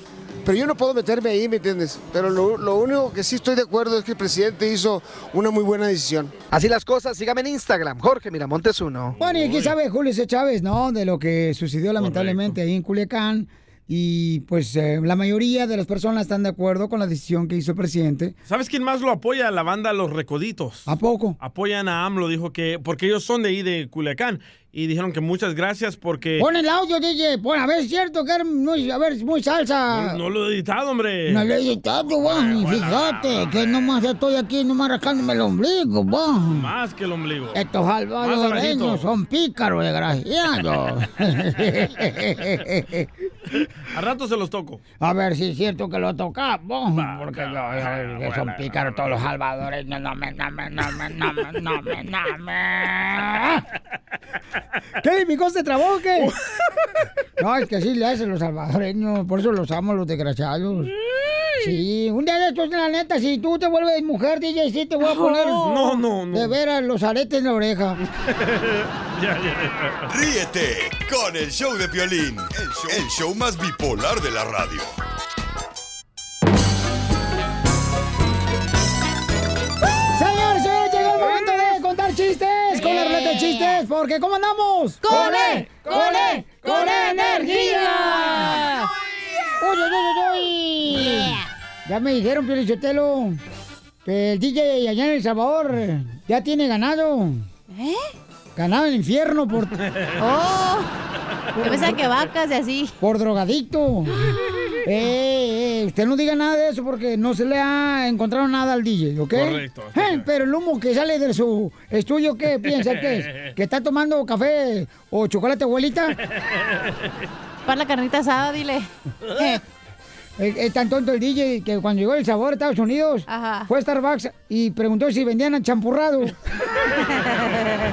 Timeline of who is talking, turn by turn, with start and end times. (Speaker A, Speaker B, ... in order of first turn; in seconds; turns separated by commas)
Speaker A: 0.5-6.3, Speaker B: 6.5-9.2, Speaker C: 9.2-9.8, Speaker D: 9.2-18.4, Speaker C: 12.0-12.6, Speaker C: 18.5-20.9, Speaker D: 20.9-21.4, Speaker C: 21.4-26.5, Speaker D: 26.4-30.2, Speaker C: 29.9-31.5, Speaker D: 31.3-36.7, Speaker C: 32.2-33.8, Speaker C: 36.5-37.6, Speaker D: 37.5-43.1, Speaker C: 38.2-39.1, Speaker C: 43.9-44.8, Speaker D: 45.0-53.6, Speaker C: 47.0-49.1, Speaker D: 55.0-56.3, Speaker D: 57.4-60.9, Speaker D: 61.6-65.7, Speaker E: 65.0-66.0, Speaker C: 65.6-66.6, Speaker D: 66.3-68.0, Speaker C: 68.3-70.1, Speaker F: 70.1-74.9, Speaker D: 80.2-88.9, Speaker E: 82.8-83.8, Speaker E: 85.0-88.5, Speaker D: 89.6-93.4, Speaker D: 94.0-97.4, Speaker E: 97.7-98.1, Speaker D: 98.6-99.8, Speaker E: 100.2-100.9, Speaker D: 101.6-102.0, Speaker E: 101.6-103.0, Speaker D: 103.0-104.2, Speaker D: 104.8-116.2, Speaker C: 109.3-110.3, Speaker E: 117.7-119.6, Speaker D: 120.4-126.3, Speaker E: 123.3-123.7